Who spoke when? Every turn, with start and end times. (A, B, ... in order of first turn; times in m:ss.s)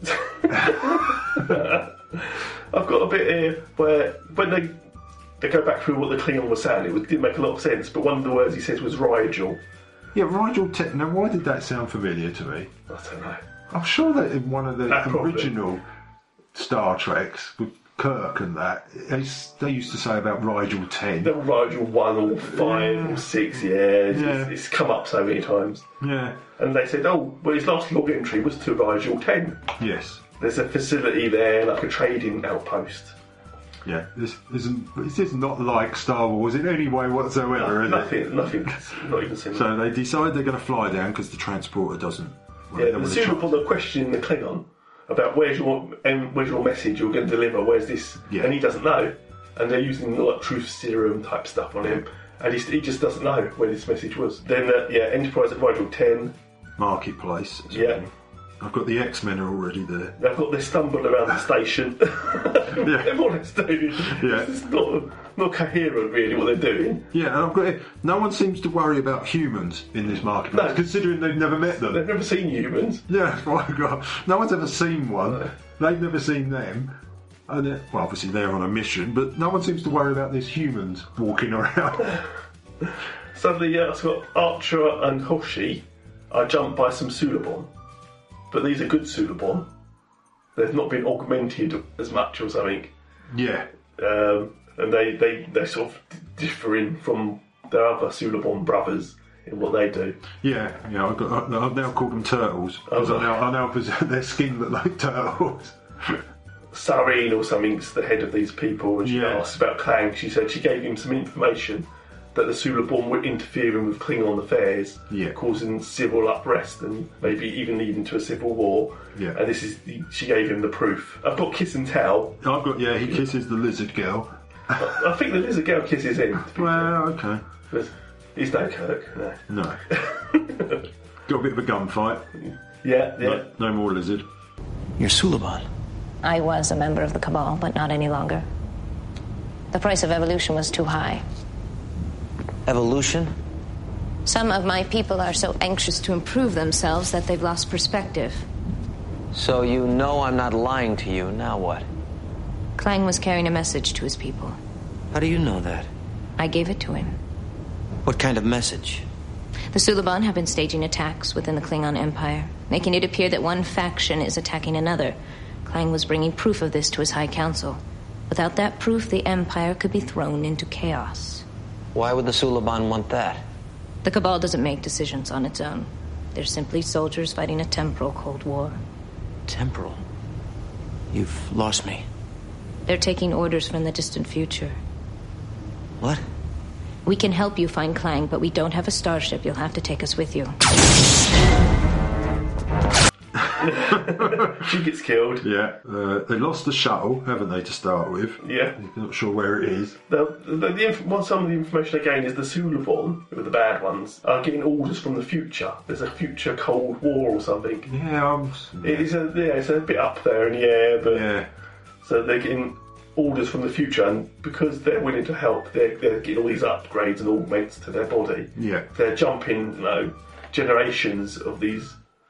0:00.2-0:04.8 A
0:00.5-0:01.5 B
0:05.4-0:09.6 A
0:10.1-0:12.7 B
0:12.9-0:13.4 A
0:13.7-0:15.8 B
0:14.9-0:15.5 A
0:16.5-0:21.3 B
0:21.2-0:25.9 A
0:22.4-0:23.3 B
0:24.1-0:24.5 B
0:26.0-0:26.4 B
0:26.6-0:29.6 A
0:29.8-0:30.2 B
0:30.4-0:33.2 A
0:33.8-0:38.3 B
0:37.6-0:39.7 A
0:39.5-0:43.6 B
0:42.8-0:56.4 A
0:48.3-0:48.6 B
0:56.8-1:00.2 B
0:57.7-0:58.0 A
1:00.2-1:07.1 A
1:02.8-1:03.2 B
1:04.0-1:04.5 B
1:07.1-1:12.0 B
1:10.5-1:10.9 A
1:11.7-1:13.0 A
1:13.1-1:22.2 B
1:23.3-1:27.7 A
1:28.5-1:29.7 A
1:30.6-1:32.9 A
1:33.3-1:33.7 B
1:34.0-1:40.2 A
1:40.4-1:45.8 B
1:42.9-1:43.4 A
1:46.7-2:02.4 A
1:49.0-1:49.4 B
1:55.1-1:55.4 B
2:02.4-2:05.0 B
2:04.8-2:07.0 A
2:06.5-2:07.4 B
2:07.7-2:10.8 A
2:09.5-2:09.8 B
2:11.3-2:12.2 B
2:12.8-2:13.5 A
2:13.2-2:14.3 B
2:15.0-2:15.6 C
2:16.2-2:18.5 D
2:19.7-2:21.2 D
2:22.7-2:23.4 C
2:24.2-2:28.5 D
2:29.3-2:31.9 C
2:32.8-2:34.6 D
2:35.1-2:35.9 C
2:36.4-2:37.2 D
2:38.0-2:39.0 C
2:39.7-2:51.4 D
2:52.0-2:53.4 C
2:54.0-2:58.8 D
2:59.5-3:00.0 C
3:01.1-3:02.1 C
3:02.9-3:04.8 D
3:07.0-3:10.6 D
3:13.4-3:14.6 B
3:13.6-3:15.5 A
3:15.4-3:20.0 B
3:18.4-3:18.8 A
3:20.1-3:27.9 A
3:27.9-3:29.1 B
3:28.8-3:31.3 A
3:31.1-3:31.5 B
3:32.0-3:42.0 A
3:38.6-3:38.9 B